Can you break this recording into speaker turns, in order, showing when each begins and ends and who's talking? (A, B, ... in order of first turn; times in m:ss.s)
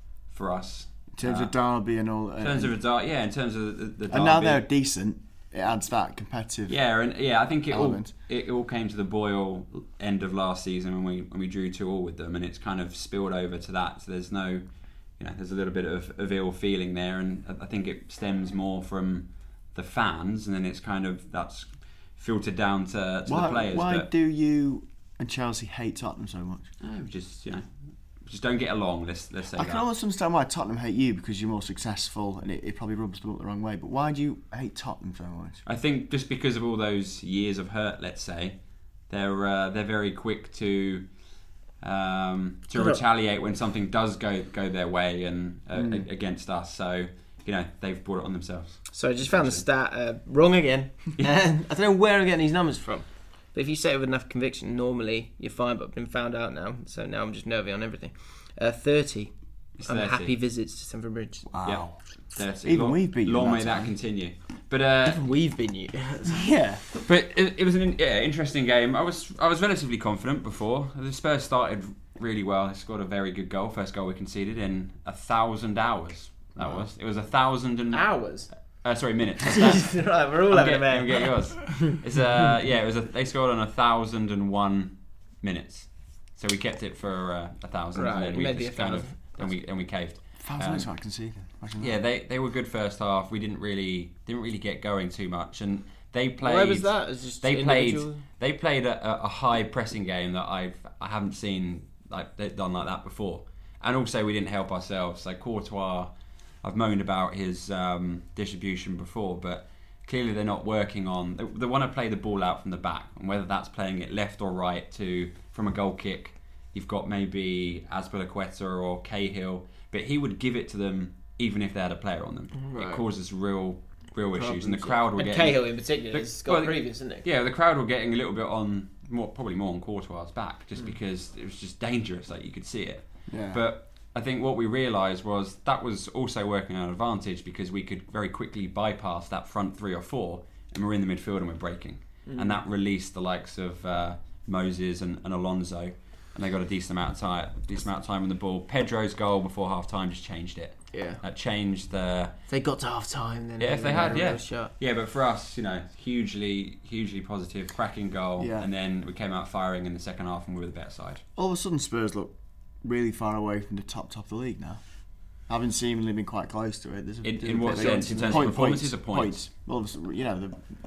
0:00.3-0:01.5 A
0:01.2-0:02.7 B
0:02.4-0:04.6 A
0:04.1-0:06.8 B
0:06.7-0:14.6 A
0:07.7-0:08.1 B
0:15.2-0:24.1 A
0:23.2-0:26.7 B
0:26.8-0:27.7 A
0:28.2-0:29.8 A
0:29.5-0:35.6 B
0:35.6-0:38.6 A
0:39.1-0:41.1 A
0:41.8-0:49.6 A
0:42.7-0:43.0 C
0:45.7-0:46.1 B
0:48.9-0:59.3 C
0:59.8-1:00.3 A
0:59.8-1:01.4 C
1:01.4-1:02.0 B
1:01.6-1:05.2 A
1:02.6-1:03.9 B
1:05.0-1:06.5 C
1:06.3-1:06.8 B
1:07.0-1:18.2 A
1:16.6-1:16.8 B
1:17.9-1:18.5 C
1:18.8-1:30.9 A
1:19.4-1:21.3 C
1:27.9-1:29.6 C
1:30.4-1:32.0 B
1:31.8-2:32.3 A
1:36.4-1:38.2 C
2:02.6-2:03.0 C
2:04.3-2:07.2 C
2:13.3-2:13.6 B
2:22.2-2:22.6 C
2:30.9-2:31.2 C
2:32.5-2:34.7 C
2:33.6-2:41.2 A
2:38.4-2:38.7 B
2:41.4-2:44.8 B
2:45.5-2:50.7 B
2:47.2-2:49.4 A
2:47.8-2:48.3 C